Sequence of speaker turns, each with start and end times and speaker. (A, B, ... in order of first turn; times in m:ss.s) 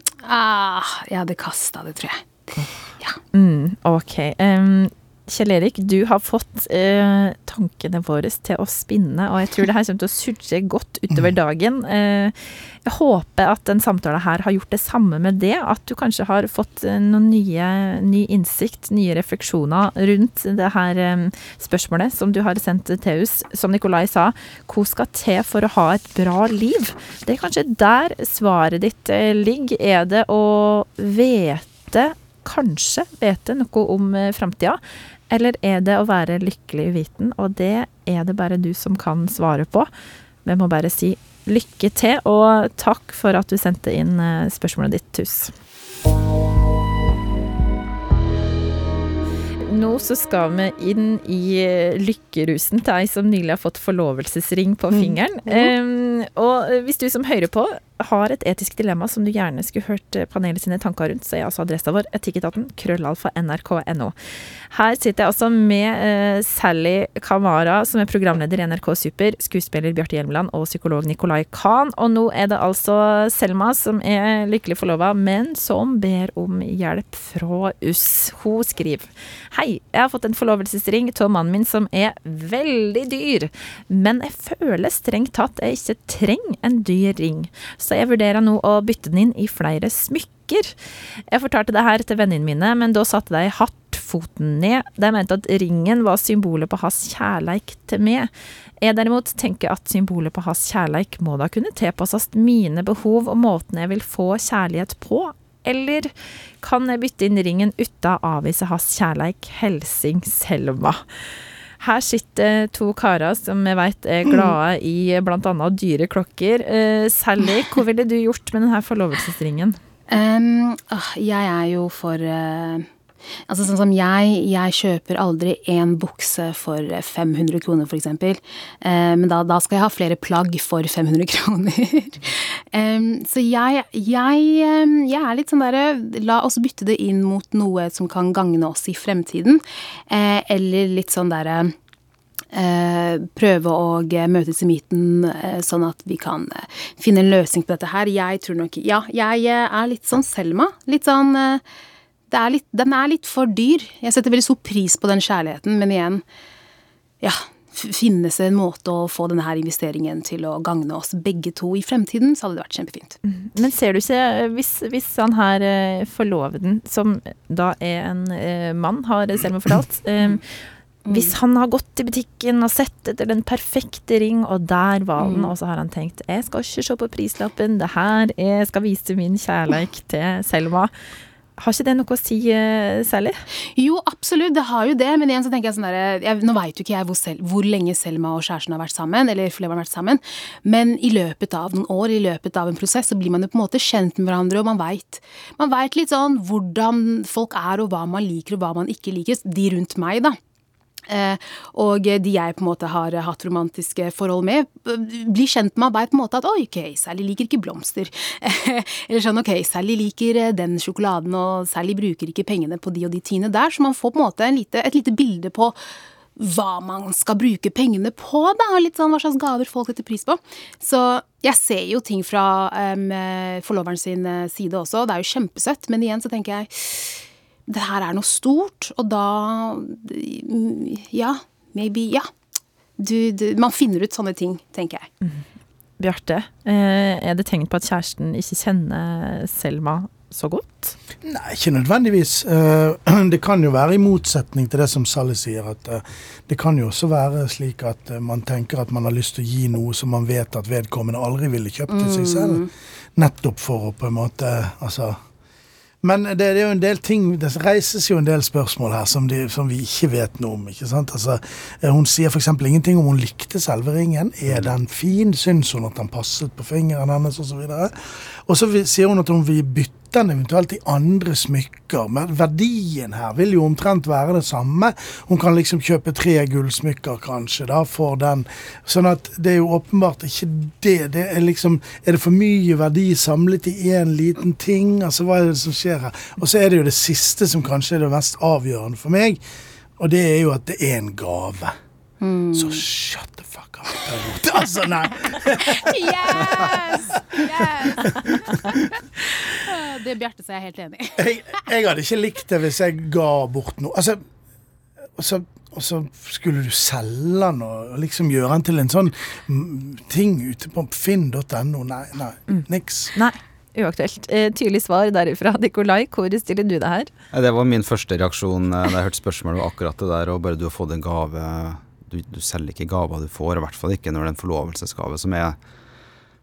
0:00.2-0:02.3 A
0:03.3-0:39.9 B
0:40.4-0:45.5 B
0:49.6-1:30.8 B
0:54.9-0:55.7 A
1:31.3-1:38.3 B
1:38.8-1:51.1 B
1:51.8-1:59.8 B
2:00.1-2:02.9 A
2:03.5-2:21.8 A
2:22.5-2:31.6 A
2:32.3-2:36.2 A
2:37.2-2:43.2 A
2:43.2-3:00.9 B
2:51.1-2:51.3 A
2:55.2-2:55.5 A
3:01.6-3:03.4 B
3:03.8-3:20.4 A
3:21.1-3:35.8 A
3:36.4-3:52.3 A
3:53.0-3:55.1 A
3:56.0-4:01.0 B
4:01.2-4:15.2 C
4:11.9-4:12.7 A
4:16.0-4:49.4 C
4:50.0-4:51.8 C
4:52.2-4:52.8 A
4:52.5-4:59.0 C
4:55.3-5:01.3 A
5:01.2-5:04.2 C
5:05.2-5:13.1 C
5:12.5-5:17.1 B
5:17.3-5:25.6 D